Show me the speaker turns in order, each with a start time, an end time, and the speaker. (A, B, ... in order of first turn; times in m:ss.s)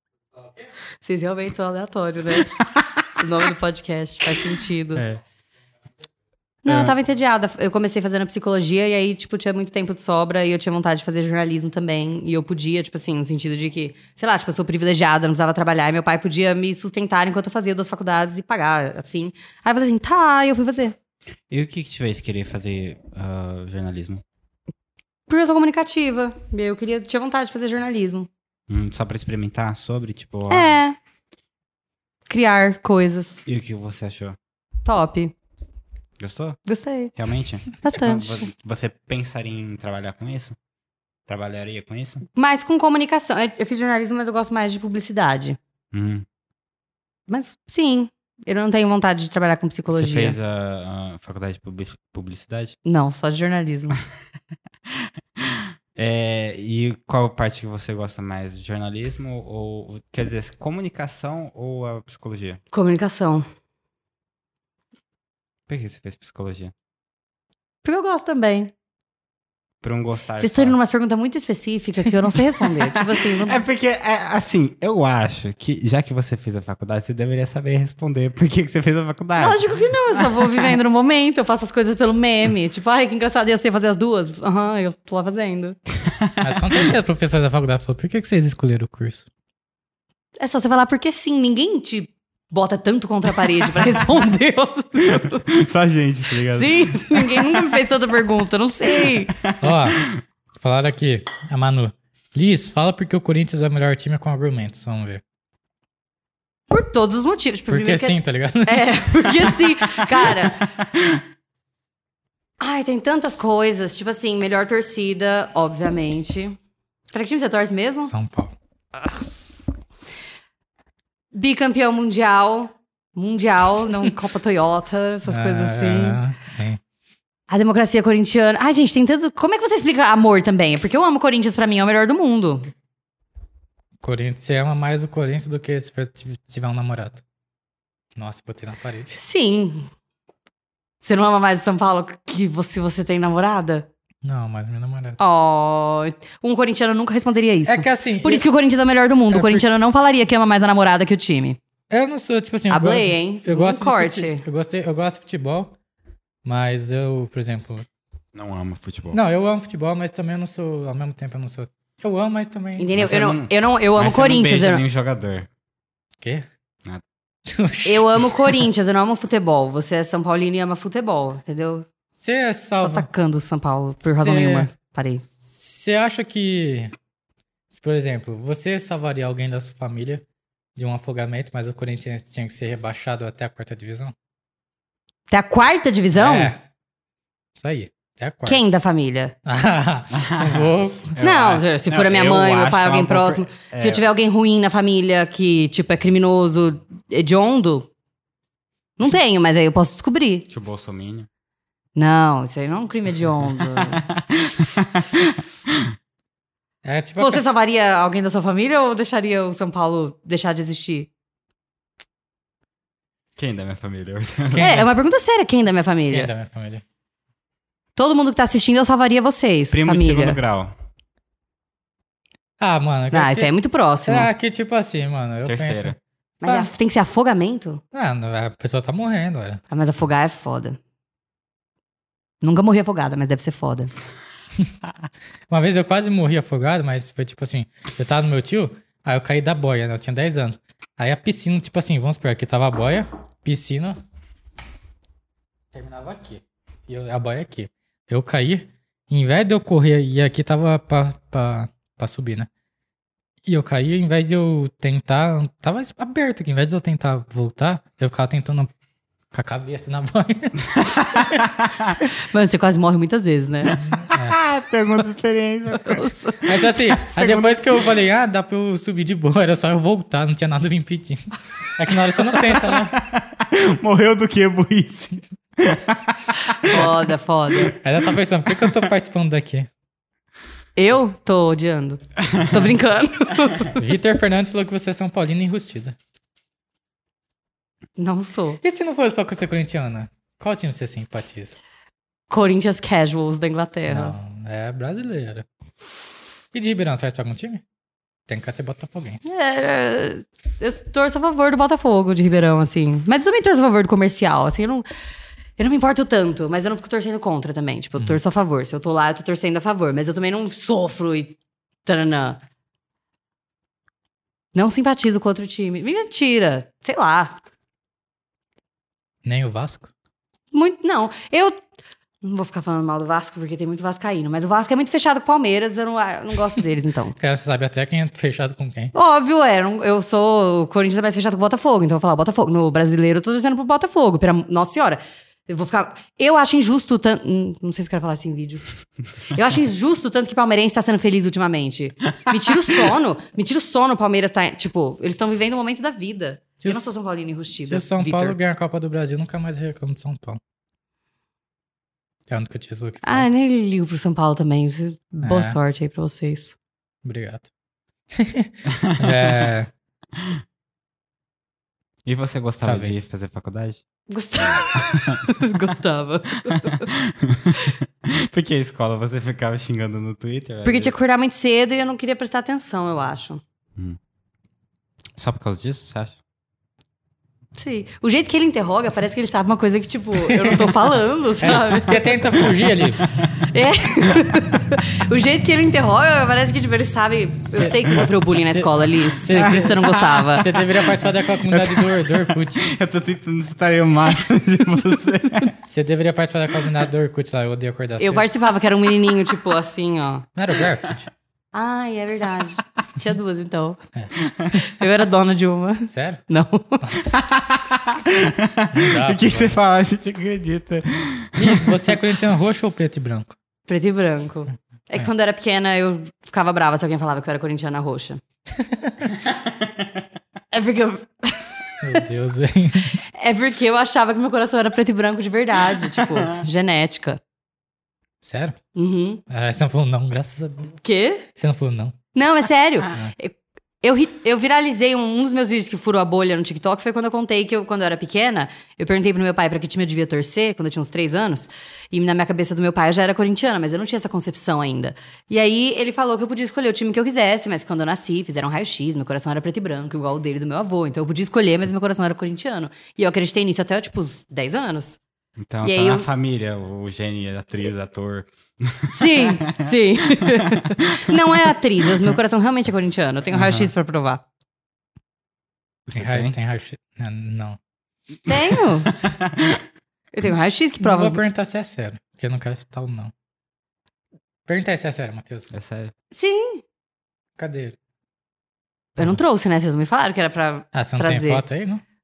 0:01.0-0:05.0 A
0:05.0-0:05.2 B
0:06.6-0:21.0 A
0:06.7-0:07.0 B
0:21.5-0:24.2 B
0:25.3-0:28.3 A
0:28.7-0:30.8 B
0:30.5-0:31.0 A
0:32.3-0:33.4 A
0:33.5-0:34.4 B
0:34.8-0:35.3 A
0:36.2-0:36.6 B
0:36.7-0:37.1 A
0:37.2-0:40.6 B
0:37.8-0:38.5 A
0:41.3-0:42.2 B
0:42.4-0:45.6 A
0:45.9-0:46.3 B
0:47.3-0:50.4 A
0:49.9-0:52.8 B
0:52.8-0:54.0 A
0:55.4-1:02.6 B
1:02.7-1:03.4 A
1:05.7-1:06.7 B
1:07.8-1:08.7 A
1:09.8-1:10.8 B
1:10.4-1:13.6 A
1:12.9-1:20.7 B
1:19.4-1:25.8 A
1:26.0-1:26.9 B
1:26.4-1:29.3 C
1:30.4-1:35.5 A
1:35.0-1:37.7 B
1:36.5-1:39.4 A
1:39.0-1:40.2 B
1:39.6-1:40.0 C
1:40.6-1:45.2 C
1:46.7-1:50.7 A
1:47.7-1:49.1 C
1:50.8-1:51.2 B
1:52.6-1:56.6 A
1:57.1-1:58.1 A
1:58.0-1:58.6 C
2:01.3-2:06.2 A
2:05.3-2:06.8 C
2:07.5-2:12.7 A
2:14.0-2:17.2 C
2:18.2-2:19.2 C
2:19.2-2:19.9 A
2:21.0-2:23.9 A
2:24.2-2:25.2 C
2:25.2-2:31.6 A
2:27.6-2:28.5 C
2:29.3-2:29.6 C
2:31.9-2:35.7 C
2:32.7-2:34.4 A
2:36.4-2:37.9 C
2:38.3-2:39.2 B
2:39.1-2:42.9 C
2:42.8-2:44.8 A
2:42.9-2:45.5 B
2:46.2-2:46.5 C
2:47.5-2:48.4 C
2:47.9-2:51.9 A
2:52.1-2:53.1 C
2:52.8-2:55.2 A
2:54.0-2:54.7 C
2:55.3-2:56.9 C
2:57.7-3:00.2 C
3:00.8-3:04.1 C
3:05.3-3:06.5 A
3:06.2-3:06.6 C
3:07.6-3:08.6 C
3:08.5-3:09.4 A
3:09.5-3:11.2 C
3:10.1-3:14.0 B
3:11.2-3:17.9 A
3:19.0-3:20.5 A
3:20.5-3:21.3 B
3:22.0-3:24.8 A
3:23.8-3:25.9 B
3:26.8-3:27.4 C
3:27.2-3:31.1 A
3:33.4-3:34.9 B
3:34.6-3:34.9 C
3:34.6-3:36.3 A
3:36.1-3:36.8 C
3:38.0-3:40.4 A
3:39.7-3:40.8 B
3:42.6-3:43.5 C
3:43.1-3:44.3 A
3:44.0-3:46.7 C
3:45.4-3:46.0 B
3:46.4-3:47.8 A
3:47.9-3:49.6 C
3:49.7-3:50.8 A
3:52.4-3:53.9 A
3:55.5-4:04.0 C
4:05.7-4:12.5 C
4:13.5-4:18.7 C
4:19.3-4:20.7 C
4:20.9-4:22.0 B
4:22.3-4:23.8 A
4:23.9-4:24.4 C
4:24.2-4:26.1 B
4:25.8-4:26.5 A
4:26.4-4:33.0 C
4:27.0-4:27.8 B
4:32.4-4:37.7 B
4:36.6-4:37.8 A
4:37.8-4:39.7 C
4:38.5-4:38.9 B
4:40.8-4:43.8 A
4:42.3-4:42.6 B
4:43.8-4:46.0 C
4:48.0-4:48.6 A
4:48.6-4:51.6 C
4:52.3-4:54.1 A
4:53.9-4:55.5 C
4:56.5-4:57.6 C
4:58.3-4:59.3 C
4:59.2-5:04.9 A
5:05.6-5:12.4 A
5:14.5-5:17.4 A
5:19.2-5:19.9 C
5:20.5-5:21.6 A
5:22.2-5:27.2 A
5:27.2-5:28.9 C
5:28.9-5:38.7 A
5:39.3-5:48.4 A
5:46.6-5:46.9 C
5:47.6-5:50.4 C
5:52.3-5:53.3 C
5:53.0-5:56.6 A
5:55.2-5:55.6 C
5:57.0-5:57.5 C
5:58.1-5:59.7 C
5:58.7-5:59.5 B
6:02.0-6:05.4 B
6:02.6-6:02.9 C
6:04.1-6:06.9 A
6:06.5-6:11.0 B
6:10.6-6:13.4 A
6:15.2-6:16.2 B
6:17.6-6:22.2 A
6:20.3-6:20.7 C
6:21.4-6:23.1 C
6:23.4-6:30.5 A
6:27.5-6:32.7 C
6:29.4-6:35.6 B
6:35.6-6:38.3 C
6:38.0-6:40.3 A
6:40.4-6:41.1 C
6:41.5-6:43.8 A
6:44.5-6:47.2 A
6:45.9-6:46.2 C
6:46.8-6:47.2 C
6:47.4-6:51.9 B
6:48.7-6:49.6 C
6:51.4-6:53.4 C
6:53.7-6:58.2 A
6:58.6-6:59.0 C
6:59.3-6:59.8 B
7:00.5-7:02.0 A
7:01.8-7:03.0 C
7:03.1-7:07.2 A
7:08.2-7:08.6 C
7:08.8-7:09.2 A
7:09.3-7:10.8 C
7:10.8-7:11.2 A
7:11.4-7:12.0 C
7:12.2-7:35.0 A
7:35.4-7:42.1 B
7:35.6-7:36.1 A
7:38.9-7:44.2 A
7:43.3-7:43.7 B
7:45.9-7:46.4 B
7:46.0-7:47.6 C
7:48.3-7:48.9 A
7:48.3-7:49.6 B
7:50.1-7:51.2 A
7:50.8-7:53.1 C
7:54.5-7:55.5 C
7:55.5-7:55.9 B
7:56.1-7:56.6 A
7:57.4-7:57.8 C
7:59.0-8:01.4 A
8:00.7-8:01.8 C